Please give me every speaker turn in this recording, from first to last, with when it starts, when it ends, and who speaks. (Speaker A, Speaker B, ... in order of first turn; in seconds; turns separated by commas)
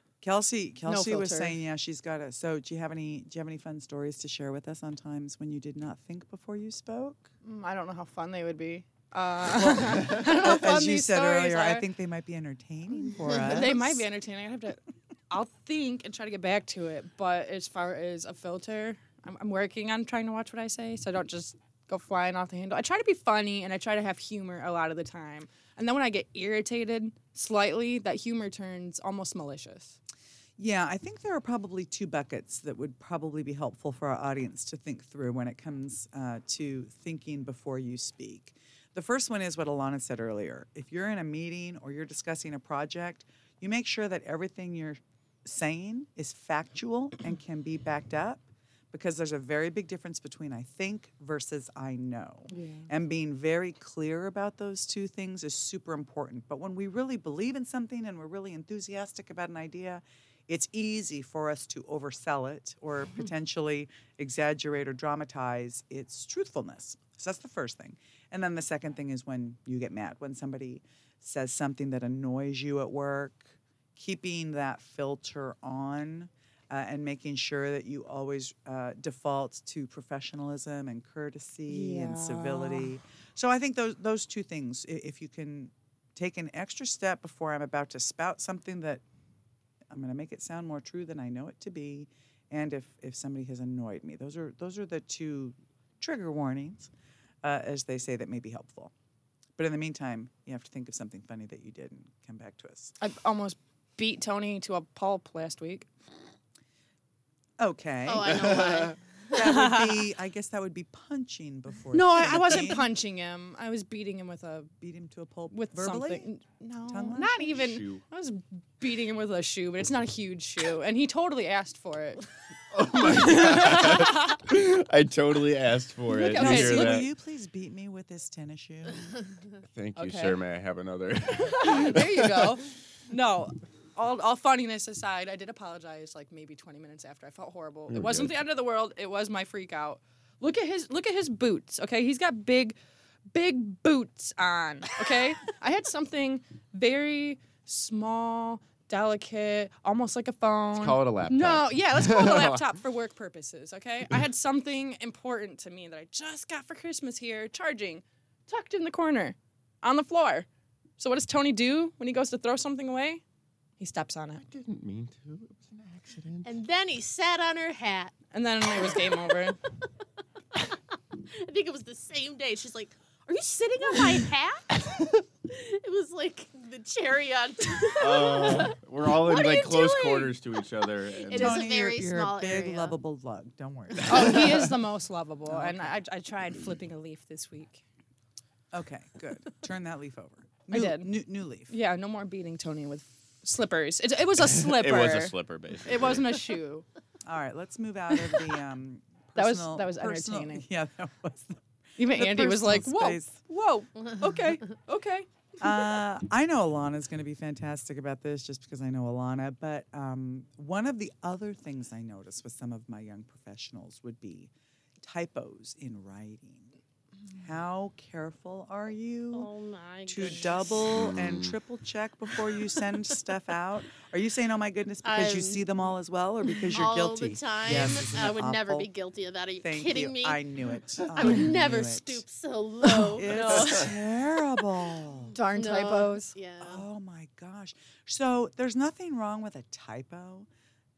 Speaker A: 0.2-7.3, Speaker B: 0.9-1.6, Speaker B: 7.4-11.8, Speaker A: 9.6-14.1, Speaker B: 13.2-30.0, Speaker A: 30.6-89.0, Speaker B: 52.5-52.9, Speaker B: 81.7-82.9, Speaker A: 89.9-96.9, Speaker A: 97.4-98.9, Speaker A: 99.6-103.0, Speaker B: 103.0-105.9, Speaker A: 107.6-108.7, Speaker C: 108.0-109.0, Speaker D: 108.2-108.9, Speaker A: 109.3-112.9, Speaker B: 109.3-109.9, Speaker B: 111.9-114.7, Speaker A: 114.8-116.3, Speaker B: 115.5-122.3, Speaker A: 116.9-117.6, Speaker D: 117.5-118.0, Speaker D: 122.7-127.1, Speaker B: 122.9-124.4, Speaker B: 126.1-127.0, Speaker A: 126.3-129.2, Speaker D: 129.7-132.6, Speaker B: 130.0-130.4, Speaker B: 131.4-142.8, Speaker D: 137.9-138.3, Speaker B: 143.3-163.2, Speaker D: 150.8-152.7, Speaker B: 163.8-164.4, Speaker D: 164.4-166.5, Speaker C: 166.4-168.2, Speaker B: 168.3-169.6, Speaker C: 170.6-182.9, Speaker D: 178.0-181.7, Speaker A: 181.3-184.7, Speaker B: 184.1-187.8, Speaker A: 185.5-185.8, Speaker A: 188.7-191.7, Speaker B: 190.7-191.1, Speaker B: 191.7-196.8, Speaker D: 194.4-196.4, Speaker A: 197.2-203.4, Speaker B: 199.4-200.7, Speaker B: 202.0-205.3, Speaker A: 205.6-216.8, Speaker A: 217.3-219.5, Speaker C: 219.3-220.9, Speaker A: 220.1-228.9, Speaker D: 220.9-221.6, Speaker C: 225.0-225.7, Speaker C: 226.7-230.4, Speaker A: 229.6-232.2, Speaker C: 231.0-233.9, Speaker B: 232.9-233.5, Speaker A: 232.9-235.3, Speaker B: 235.3-236.3, Speaker C: 235.5-236.8, Speaker A: 236.6-240.5